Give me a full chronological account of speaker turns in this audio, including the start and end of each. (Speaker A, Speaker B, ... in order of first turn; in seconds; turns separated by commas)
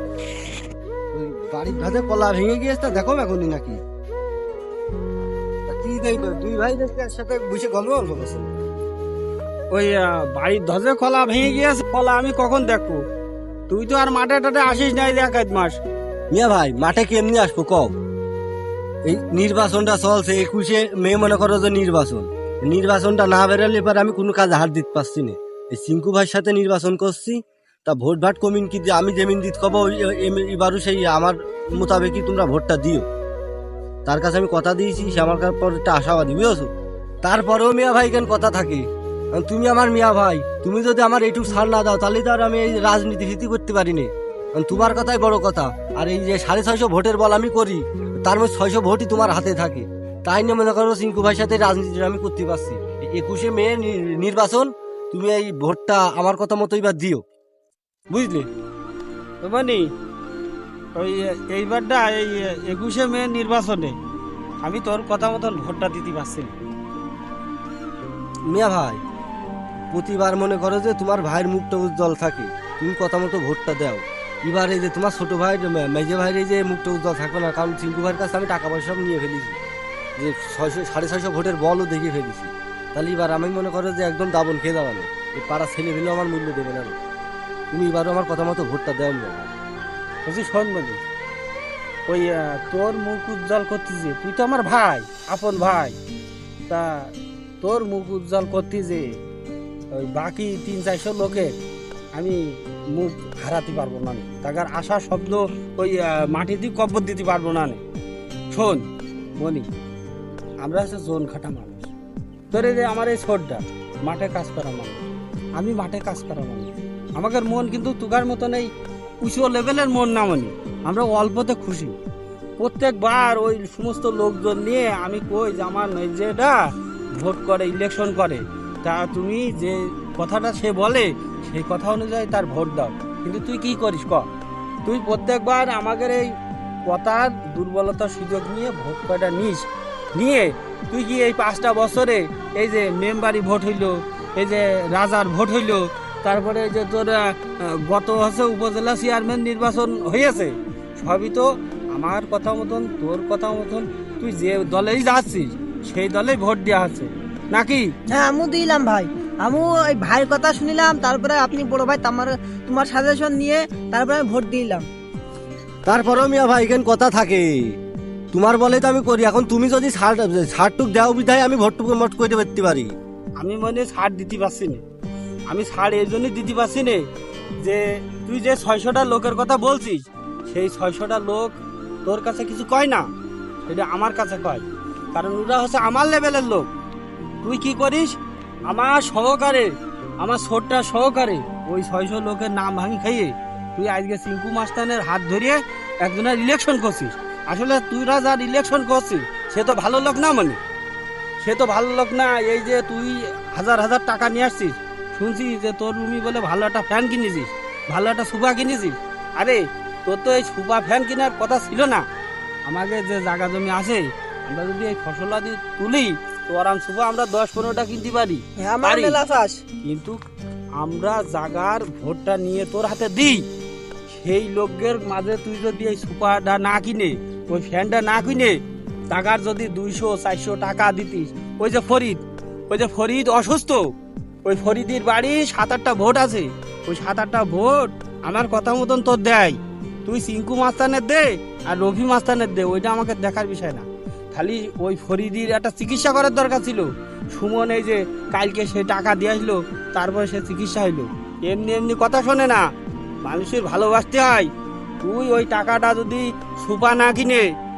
Speaker A: 1.1-3.8, Speaker A: 5.7-8.5, Speaker B: 9.7-13.0, Speaker B: 13.7-15.8, Speaker A: 16.3-17.9, Speaker A: 19.1-33.0, Speaker A: 34.0-36.7, Speaker A: 37.2-57.2, Speaker B: 58.1-58.5, Speaker B: 59.4-59.8, Speaker B: 61.0-63.9, Speaker B: 64.6-66.5, Speaker A: 68.5-69.0, Speaker A: 69.9-79.6, Speaker A: 80.2-87.0, Speaker A: 87.7-89.5, Speaker B: 90.2-91.0, Speaker B: 92.1-95.9, Speaker B: 96.7-99.0, Speaker B: 99.9-101.5, Speaker B: 102.9-107.8, Speaker B: 108.5-108.8, Speaker B: 109.4-109.7, Speaker B: 110.6-111.9, Speaker B: 112.5-115.0, Speaker B: 115.6-118.7, Speaker B: 119.2-122.0, Speaker B: 122.6-126.5, Speaker B: 127.2-134.3, Speaker B: 134.8-136.3, Speaker B: 136.8-157.9, Speaker C: 158.1-164.9, Speaker A: 165.8-167.5, Speaker A: 168.3-172.9, Speaker B: 173.4-174.8, Speaker B: 175.5-177.0, Speaker B: 177.6-183.0, Speaker B: 183.7-186.7, Speaker B: 187.4-188.2, Speaker B: 188.7-189.7, Speaker B: 190.2-200.6, Speaker B: 201.4-212.0, Speaker B: 212.7-219.2, Speaker C: 218.6-219.6, Speaker B: 219.8-220.2, Speaker B: 220.8-223.4, Speaker B: 224.1-228.6, Speaker B: 229.1-233.8, Speaker B: 234.4-252.6, Speaker B: 253.2-254.5, Speaker B: 255.0-257.4